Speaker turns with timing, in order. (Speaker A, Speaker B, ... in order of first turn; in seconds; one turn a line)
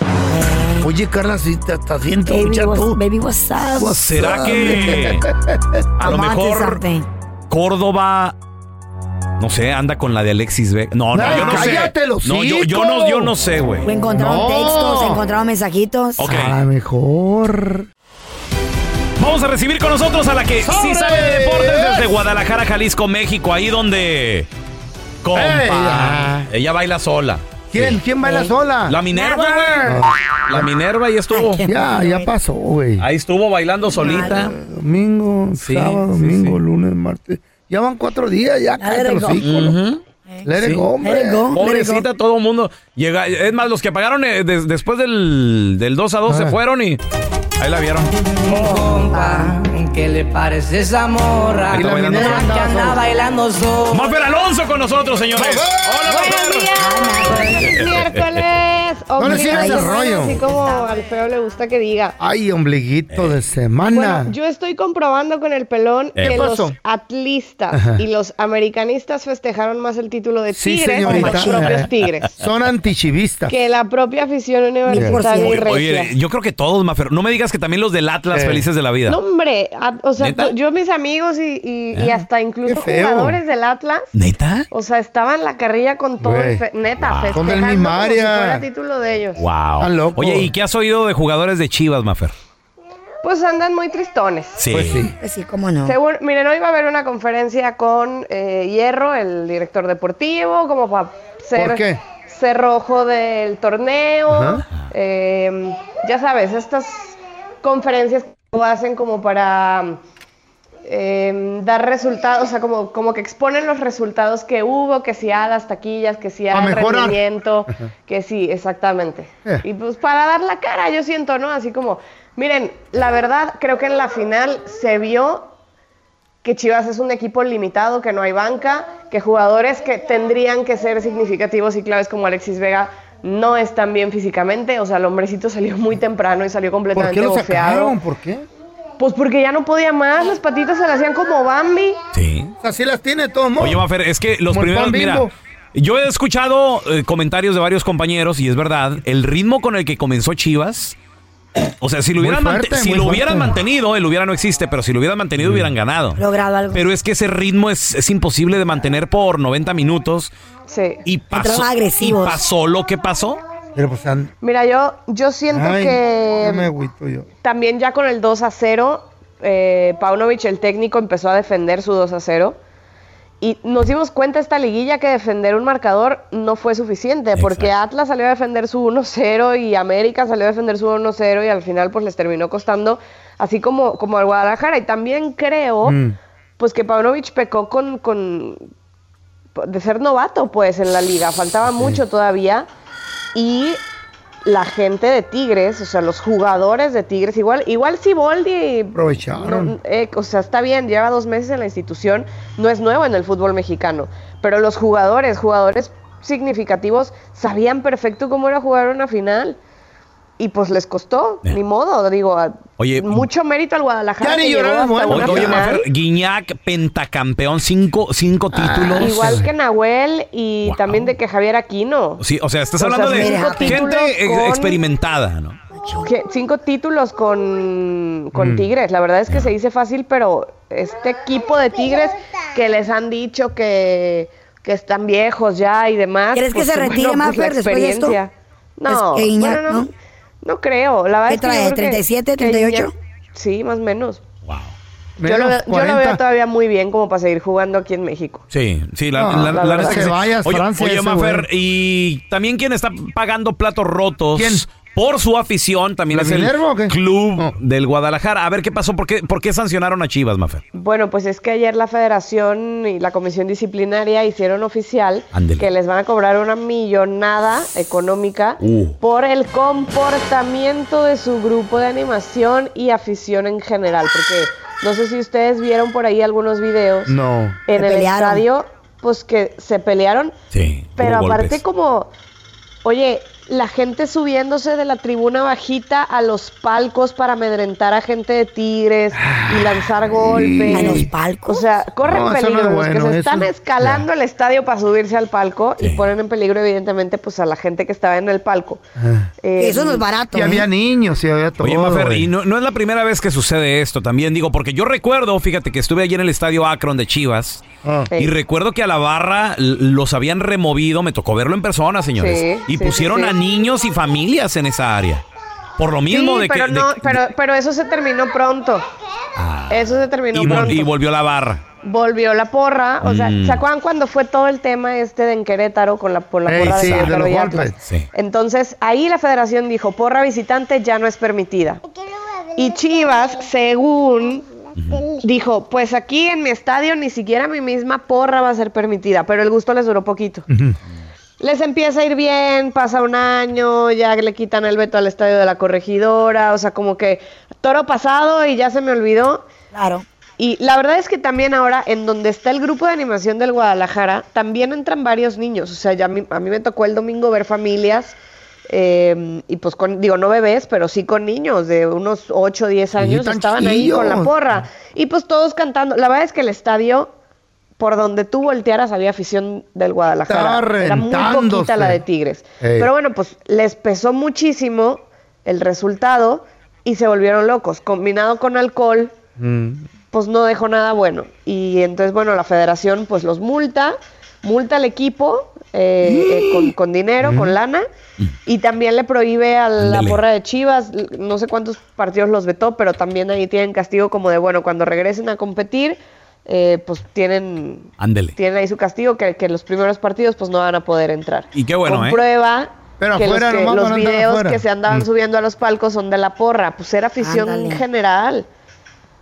Speaker A: 0.3-0.9
Speaker B: 0.8-3.0
Speaker A: 2.3-4.0
Speaker B: 3.8-5.8
Speaker C: 3.9-5.3
Speaker C: 6.0-6.8
Speaker A: 6.0-7.1
Speaker C: 7.5-8.4
Speaker C: 9.4-13.9
Speaker B: 11.1-13.3
Speaker A: 13.8-16.3
Speaker B: 14.1-15.2
Speaker C: 16.2-16.6
Speaker B: 16.2-17.9
Speaker C: 19.2-24.5
Speaker B: 20.6-22.1
Speaker C: 25.2-28.0
Speaker B: 25.3-26.5
Speaker B: 27.7-29.0
Speaker A: 28.2-28.5
Speaker C: 28.9-31.6
Speaker A: 29.1-29.8
Speaker B: 29.8-30.7
Speaker A: 31.3-32.3
Speaker B: 31.6-33.1
Speaker C: 33.0-34.5
Speaker A: 34.0-34.5
Speaker B: 34.1-39.8
Speaker C: 35.6-36.6
Speaker A: 38.8-39.7
Speaker C: 39.4-40.0
Speaker B: 40.5-41.5
Speaker C: 40.6-40.9
Speaker A: 41.0-42.0
Speaker C: 41.5-47.0
Speaker B: 46.3-46.6
Speaker C: 47.6-48.1
Speaker A: 48.5-49.6
Speaker D: 48.5-54.2
Speaker C: 51.7-52.5
Speaker B: 51.7-53.0
Speaker C: 53.9-56.7
Speaker B: 55.4-56.0
Speaker E: 56.0-62.2
Speaker A: 56.8-57.8
Speaker C: 57.5-58.2
Speaker B: 59.2-60.4
Speaker A: 59.3-59.9
Speaker B: 62.2-64.3
Speaker C: 63.1-63.4
Speaker E: 63.9-72.3
Speaker C: 66.2-66.4
Speaker B: 66.2-66.8
Speaker B: 67.7-68.0
Speaker B: 70.5-71.9
Speaker A: 71.1-71.6
Speaker B: 72.4-73.5
Speaker E: 73.5-76.1
Speaker A: 74.9-75.7
Speaker B: 74.9-75.2
Speaker C: 75.4-79.2
Speaker B: 78.3-78.7
Speaker E: 79.1-84.1
Speaker C: 80.2-80.5
Speaker C: 81.9-82.2
Speaker B: 82.7-83.4
Speaker C: 84.1-84.7
Speaker E: 84.7-89.4
Speaker B: 86.2-86.6
Speaker C: 87.0-87.4
Speaker B: 87.3-88.7
Speaker C: 89.4-92.3
Speaker B: 89.8-90.5
Speaker E: 93.2-94.6
Speaker C: 94.6-95.1
Speaker B: 94.7-95.2
Speaker A: 95.2-96.0
Speaker E: 95.8-110.0
Speaker B: 101.5-102.0
Speaker B: 104.3-104.6
Speaker E: 110.8-125.5
Speaker B: 116.5-117.2
Speaker E: 126.4-138.0
Speaker B: 136.9-138.5
Speaker E: 139.0-142.0
Speaker C: 142.1-142.5
Speaker B: 142.6-143.8
Speaker C: 143.6-151.0
Speaker B: 144.5-145.3
Speaker C: 151.8-156.2
Speaker B: 152.2-153.5
Speaker A: 156.2-156.9
Speaker C: 156.7-160.3
Speaker E: 160.7-161.0
Speaker C: 161.1-163.4
Speaker A: 161.3-162.4
Speaker B: 163.8-164.3
Speaker E: 164.4-166.7
Speaker B: 165.5-167.3
Speaker E: 167.4-172.6
Speaker E: 173.4-186.0
Speaker C: 177.3-177.7
Speaker B: 185.8-186.2
Speaker E: 186.6-188.6
Speaker E: 189.6-192.7
Speaker E: 193.3-193.8
Speaker E: 194.4-209.6
Speaker B: 198.9-199.7
Speaker E: 210.4-215.9
Speaker C: 212.8-213.3
Speaker B: 214.2-215.7
Speaker C: 215.1-219.4
Speaker B: 218.5-219.5
Speaker E: 219.0-222.2
Speaker C: 220.6-221.1
Speaker C: 222.2-225.6
Speaker E: 222.8-224.8
Speaker A: 223.1-223.9
Speaker A: 225.8-226.1
Speaker E: 226.0-239.9
Speaker B: 228.3-228.7
Speaker A: 236.3-238.2
Speaker A: 238.9-239.9
Speaker E: 240.4-244.2
Speaker A: 241.3-242.9
Speaker C: 244.5-244.7
Speaker B: 245.2-246.2
Speaker E: 245.2-248.4
Speaker C: 248.5-260.6
Speaker B: 249.2-251.5
Speaker E: 249.5-250.1
Speaker B: 254.3-254.6
Speaker B: 256.1-257.5
Speaker E: 260.7-277.2
Speaker C: 265.3-265.7
Speaker C: 268.6-269.0
Speaker B: 277.1-277.6
Speaker E: 277.7-280.3
Speaker A: 277.8-278.4
Speaker C: 280.5-281.6
Speaker E: 281.0-282.1
Speaker E: 282.9-298.8
Speaker B: 289.2-291.1
Speaker A: 290.7-291.7
Speaker B: 292.1-293.9
Speaker C: 295.8-296.1
Speaker B: 299.0-299.3
Speaker E: 299.4-300.1
Speaker A: 299.6-300.7
Speaker B: 300.3-302.3
Speaker C: 301.6-307.6
Speaker B: 307.8-308.1
Speaker C: 308.2-315.2
Speaker E: 312.2-313.4
Speaker C: 315.8-317.2
Speaker E: 316.1-318.9
Speaker C: 319.4-321.6
Speaker E: 319.7-320.9
Speaker B: 320.4-320.8
Speaker E: 321.8-331.8
Speaker C: 323.0-323.6
Speaker B: 326.5-327.8
Speaker C: 326.6-327.2
Speaker E: 332.6-334.5
Speaker C: 334.8-335.1
Speaker E: 335.1-340.4
Speaker E: 341.4-349.5
Speaker A: 349.7-350.1
Speaker E: 350.4-358.2
Speaker E: 358.7-367.1
Speaker B: 363.0-364.3
Speaker E: 367.8-379.1
Speaker B: 370.3-372.0
Speaker B: 372.6-372.9
Speaker B: 379.4-379.8
Speaker E: 380.1-387.9
Speaker B: 387.2-387.5
Speaker E: 388.5-408.5
Speaker C: 389.8-390.2
Speaker C: 398.0-398.4
Speaker C: 401.6-402.2
Speaker B: 403.0-405.1
Speaker A: 407.2-407.8